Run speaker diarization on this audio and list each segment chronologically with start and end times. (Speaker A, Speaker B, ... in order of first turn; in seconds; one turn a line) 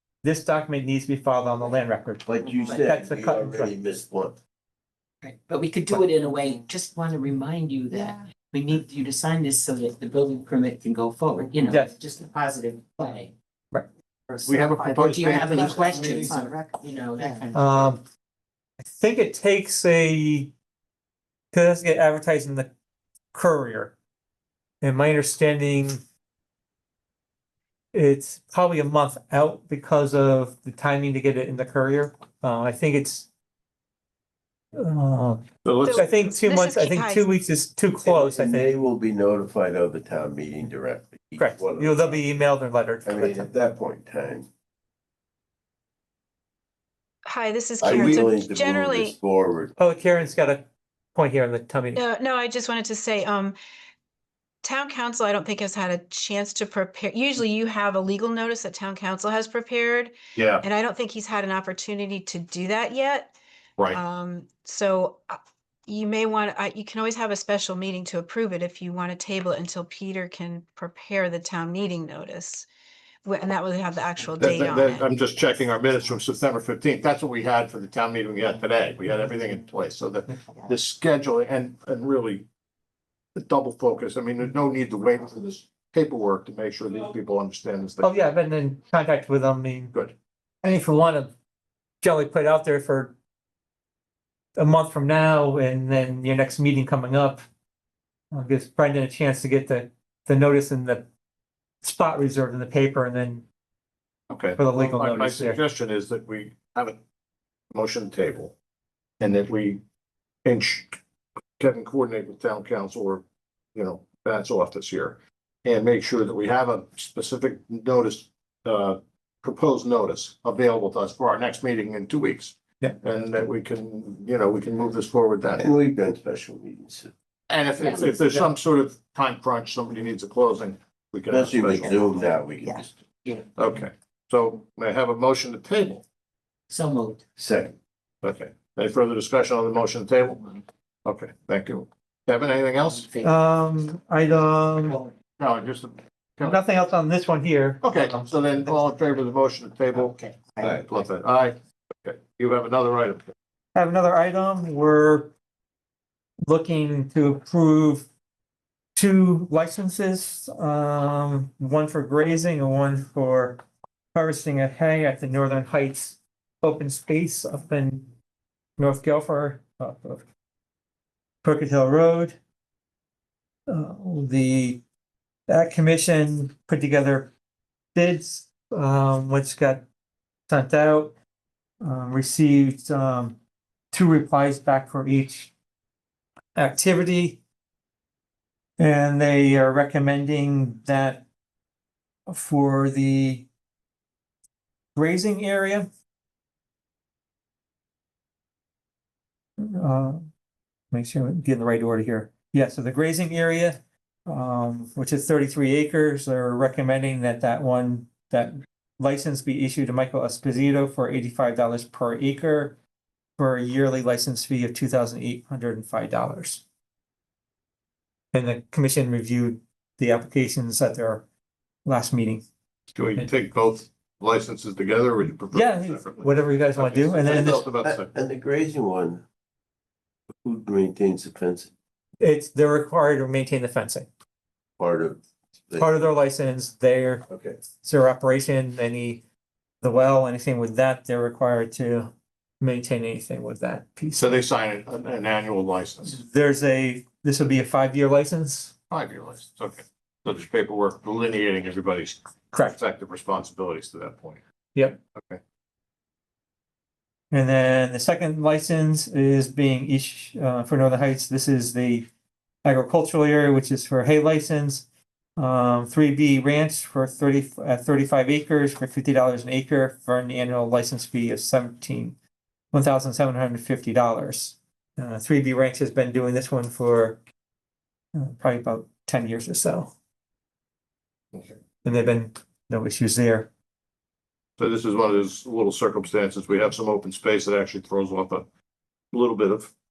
Speaker A: 0.2-3.7
Speaker B: 2.2-4.4
Speaker C: 5.2-13.3
Speaker A: 11.7-11.9
Speaker C: 14.3-17.8
Speaker D: 14.4-16.5
Speaker A: 17.5-18.0
Speaker A: 18.9-20.5
Speaker A: 21.5-22.7
Speaker A: 23.3-23.9
Speaker A: 24.8-26.0
Speaker A: 27.9-33.3
Speaker A: 34.7-38.7
Speaker D: 35.6-36.0
Speaker E: 35.8-37.2
Speaker B: 38.0-42.2
Speaker A: 41.4-43.5
Speaker B: 43.0-44.5
Speaker E: 47.2-49.2
Speaker B: 47.8-49.7
Speaker A: 49.8-52.0
Speaker E: 51.9-53.5
Speaker E: 54.6-63.3
Speaker D: 60.3-60.6
Speaker E: 63.9-72.7
Speaker E: 73.2-75.1
Speaker D: 74.4-82.5
Speaker D: 83.3-88.1
Speaker A: 88.0-89.9
Speaker A: 90.6-91.3
Speaker A: 92.0-93.2
Speaker A: 94.5-97.4
Speaker A: 98.3-101.1
Speaker A: 101.8-103.4
Speaker D: 104.3-107.0
Speaker A: 104.6-105.6
Speaker D: 107.7-108.5
Speaker D: 109.2-109.8
Speaker D: 110.4-111.0
Speaker D: 111.6-125.7
Speaker B: 125.6-127.1
Speaker D: 127.5-132.1
Speaker B: 131.3-132.9
Speaker C: 132.6-133.5
Speaker D: 133.6-136.0
Speaker C: 136.7-137.2
Speaker B: 137.4-137.7
Speaker D: 138.2-143.1
Speaker C: 142.8-143.3
Speaker A: 143.2-145.0
Speaker D: 145.4-146.6
Speaker A: 146.4-148.8
Speaker D: 147.8-153.3
Speaker C: 149.9-150.8
Speaker A: 153.7-155.3
Speaker A: 156.4-158.1
Speaker A: 158.9-163.6
Speaker A: 164.1-168.1
Speaker A: 168.8-170.2
Speaker A: 171.4-172.4
Speaker A: 173.7-174.8
Speaker A: 175.5-177.3
Speaker A: 177.9-179.8
Speaker A: 180.5-181.1
Speaker A: 181.8-183.4
Speaker A: 183.9-185.5
Speaker A: 186.5-187.4
Speaker A: 188.8-191.2
Speaker A: 192.3-193.5
Speaker A: 194.9-195.9
Speaker A: 199.6-200.3
Speaker A: 200.9-212.8
Speaker A: 213.4-216.6
Speaker A: 218.3-221.2
Speaker A: 221.8-222.4
Speaker D: 222.9-228.1
Speaker A: 225.5-227.6
Speaker B: 227.3-229.2
Speaker B: 230.4-231.7
Speaker A: 232.2-234.1
Speaker B: 234.8-235.9
Speaker A: 235.7-237.2
Speaker B: 237.3-237.6
Speaker A: 237.8-239.2
Speaker A: 239.8-244.3
Speaker D: 244.2-246.2
Speaker A: 246.0-248.7
Speaker D: 248.9-254.4
Speaker A: 252.5-252.8
Speaker D: 255.1-255.4
Speaker A: 257.3-262.1
Speaker A: 262.6-264.9
Speaker A: 265.4-272.1
Speaker A: 272.7-277.2
Speaker A: 278.1-279.9
Speaker A: 281.8-283.5
Speaker D: 284.6-288.4
Speaker D: 289.1-289.7